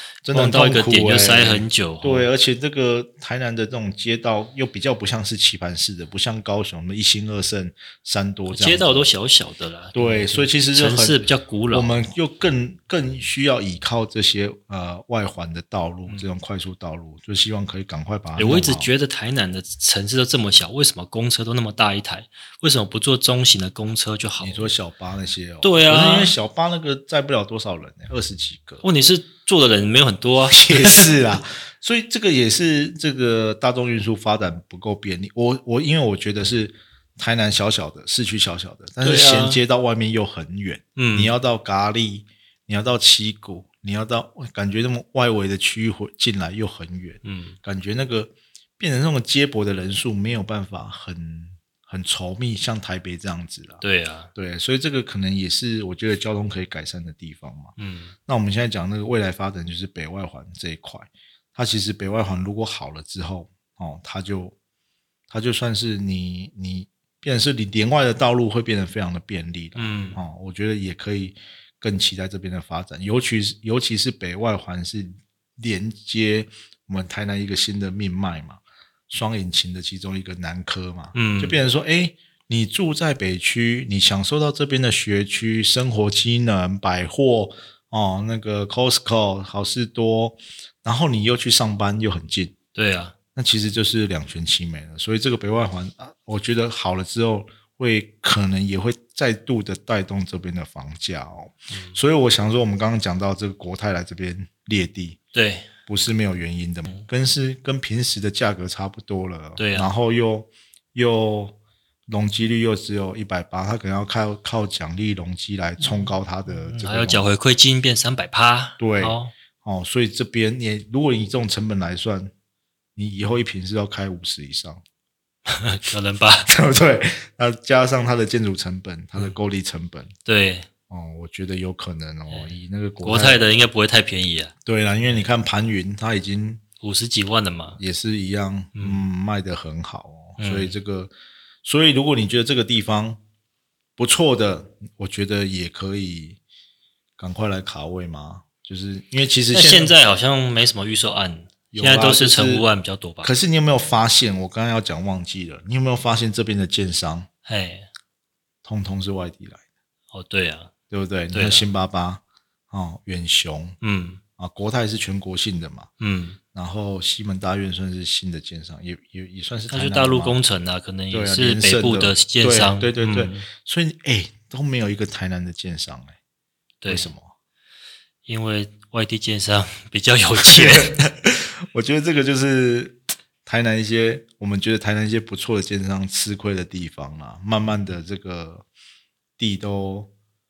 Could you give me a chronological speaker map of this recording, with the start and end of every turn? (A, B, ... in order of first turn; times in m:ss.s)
0:00.2-0:09.1 A
0:00.3-0:02.3 B
0:08.5-0:12.0 B
0:10.0-0:18.9 A
0:18.4-0:24.7 B
0:24.4-0:28.8 A
0:25.6-0:26.4 B
0:28.8-0:31.2 B
0:30.5-0:53.8 A
0:39.0-0:39.6 B
0:41.0-0:41.3 B
0:47.2-0:47.6 B
0:53.8-0:54.3 B
0:54.4-0:57.8 A
0:57.8-0:58.2 B
0:58.3-1:04.6 A
1:05.3-1:32.6 A
1:09.8-1:10.2 B
1:21.1-1:21.6 B
1:32.8-1:33.1 B
1:33.4-1:45.2 A
1:41.7-1:42.0 B
1:45.3-1:45.7 B
1:45.9-1:51.6 A
1:49.6-1:49.9 B
1:52.1-1:57.3 A
1:55.8-1:59.3 B
1:58.8-2:02.3 A
2:03.0-2:04.8 A
2:05.5-2:06.5 B
2:06.5-2:10.1 A
2:10.2-2:10.7 B
2:10.9-2:13.4 A
2:12.3-2:15.3 B
2:14.6-2:16.6 A
2:16.8-2:17.8 B
2:17.8-2:21.1 A
2:18.8-2:19.0 B
2:20.4-2:20.8 B
2:21.6-2:23.2 A
2:24.0-2:26.4 A
2:27.2-2:29.9 A
2:29.5-2:33.3 B
2:31.7-2:32.7 A
2:33.2-2:37.3 A
2:37.5-2:37.9 B
2:38.6-2:39.6 A
2:40.1-2:40.7 B
2:40.9-2:43.8 A
2:41.3-2:41.7 B
2:43.8-2:44.2 B
2:44.4-2:45.9 A
2:46.0-2:46.4 B
2:46.5-2:50.4 A
2:49.7-2:53.5 B
2:51.1-2:56.2 A
2:56.8-2:57.1 B
2:56.9-2:57.3 A
2:58.3-3:01.0 B
3:00.3-3:08.6 A
3:07.7-3:08.0 B
3:09.4-3:10.1 A